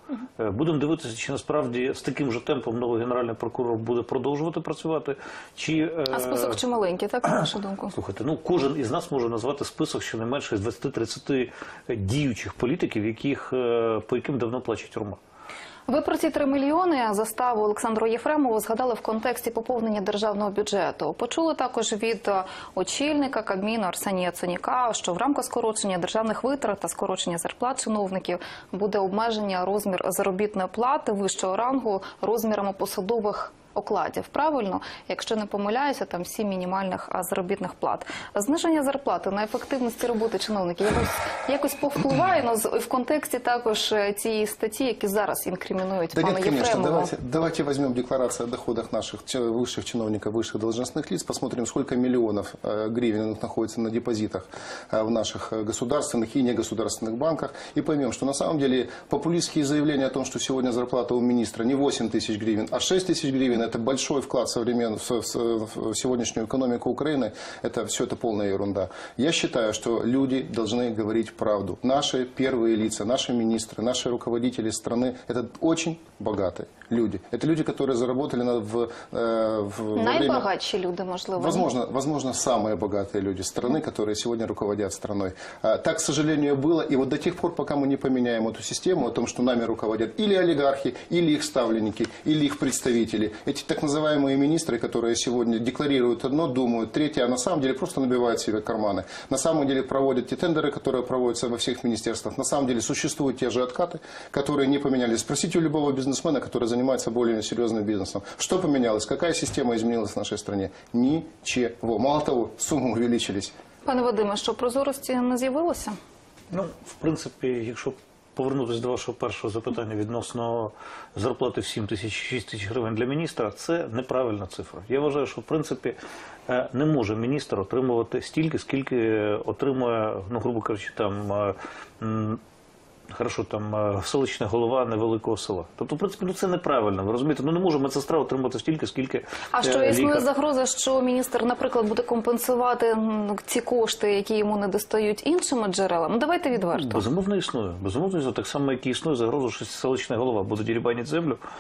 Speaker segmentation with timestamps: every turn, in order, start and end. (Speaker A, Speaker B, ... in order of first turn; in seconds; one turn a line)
Speaker A: 0.4-6.6
Speaker B: 6.1-7.9
Speaker A: 7.9-15.2
Speaker B: 15.9-47.1
Speaker C: 46.1-80.5
Speaker B: 80.0-81.7
Speaker C: 81.4-113.5
Speaker B: 113.8-116.0
Speaker A: 116.5-126.0
Speaker A: 126.5-132.4
Speaker A: 133.1-140.2
Speaker B: 139.5-147.0
Speaker A: 146.7-151.4